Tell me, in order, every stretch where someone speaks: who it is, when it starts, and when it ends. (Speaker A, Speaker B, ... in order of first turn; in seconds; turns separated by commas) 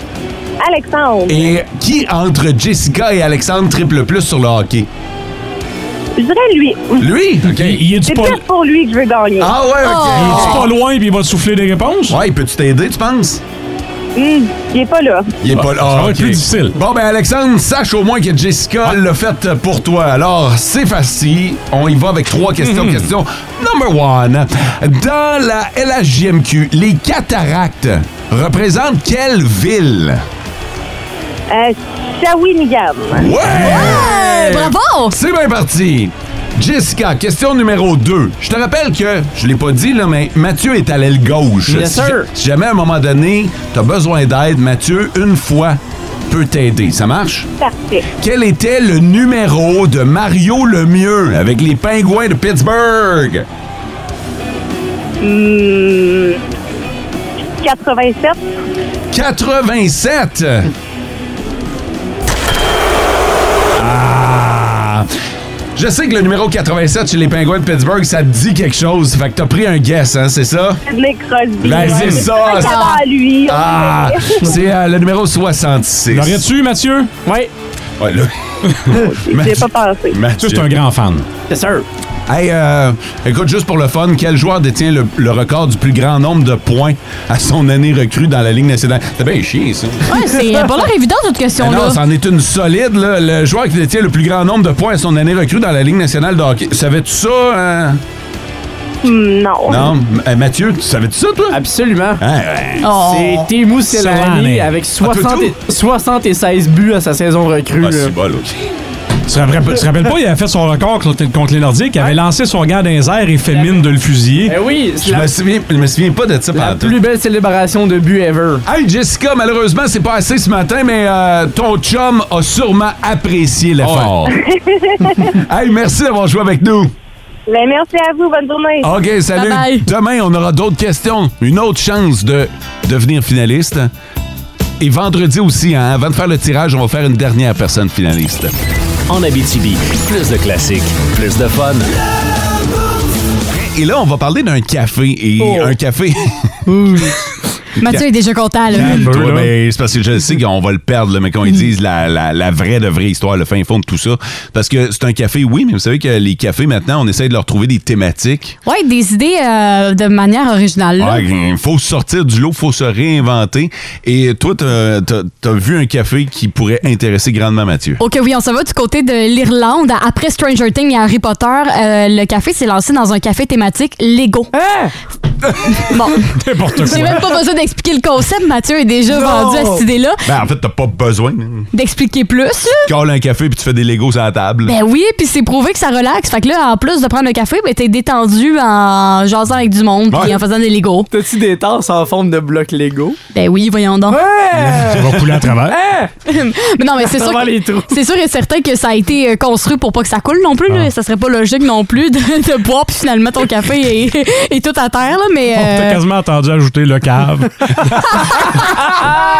Speaker A: 0.6-1.5, Speaker B: 1.3-4.9, Speaker A: 6.2-7.1, Speaker B: 7.0-7.9, Speaker C: 7.4-8.4, Speaker A: 8.0-9.5, Speaker B: 9.4-10.7, Speaker D: 9.8-10.7, Speaker C: 10.2-12.2, Speaker B: 12.1-13.4, Speaker A: 14.2-15.3, Speaker B: 15.4-30.2, Speaker C: 15.5-16.8, Speaker C: 22.6-23.1, Speaker A: 31.5-33.3, Speaker B: 33.2-47.5, Speaker D: 33.6-35.2, Speaker E: 41.7-42.3, Speaker A: 47.6-48.0, Speaker B: 48.2-53.5, Speaker A: 55.2-56.4, Speaker A: 57.6-58.4, Speaker B: 59.1-60.7, Speaker B: 63.8-65.1, Speaker B: 65.8-70.8, Speaker A: 70.9-74.5, Speaker B: 71.6-72.9, Speaker D: 71.8-73.0, Speaker C: 71.9-72.3, Speaker B: 73.5-76.4, Speaker C: 76.1-77.1, Speaker E: 77.2-77.5, Speaker B: 78.0-78.3, Speaker A: 78.9-80.2, Speaker B: 79.2-80.7, Speaker C: 80.4-81.3, Speaker E: 81.5-81.9, Speaker B: 82.3-90.1, Speaker D: 90.1-92.0, Speaker B: 91.6-98.0, Speaker A: 99.0-99.9, Speaker B: 99.7-101.6, Speaker E: 101.5-102.2, Speaker B: 102.2-103.5, Speaker D: 102.8-103.5, Speaker E: 103.0-108.2, Speaker C: 103.9-104.7, Speaker B: 105.0-105.6, Speaker B: 107.8-108.5, Speaker C: 109.3-114.6, Speaker E: 113.5-113.8, Speaker E: 114.5-115.3, Speaker B: 115.0-117.0, Speaker E: 116.5-118.7, Speaker B: 118.7-124.3, Speaker C: 123.8-124.2, Speaker A: 124.3-125.3, Speaker B: 125.5-126.9, Speaker A: 127.5-128.9, Speaker B: 128.8-133.9, Speaker D: 129.3-129.9, Speaker B: 134.8-138.5, Speaker F: 139.1-141.9, Speaker B: 143.5-147.1, Speaker E: 145.4-145.8, Speaker E: 146.7-147.1, Speaker D: 147.8-149.1, Speaker B: 147.8-148.1, Speaker B: 148.7-158.6, Speaker C: 148.8-149.5, Speaker D: 158.7-161.2, Speaker B: 161.0-168.0, Speaker D: 168.0-174.5, Speaker E: 174.5-174.9, Speaker D: 175.7-176.2, Speaker C: 176.3-177.3, Speaker D: 176.8-180.2, Speaker E: 179.1-179.8, Speaker B: 180.2-181.7, Speaker D: 181.7-182.9, Speaker B: 182.8-184.7, Speaker D: 184.7-191.1, Speaker B: 190.1-190.3, Speaker E: 191.1-193.2, Speaker D: 193.3-194.2, Speaker E: 194.1-196.1, Speaker C: 194.9-195.8, Speaker D: 196.3-206.0, Speaker E: 197.0-197.9, Speaker C: 205.5-208.8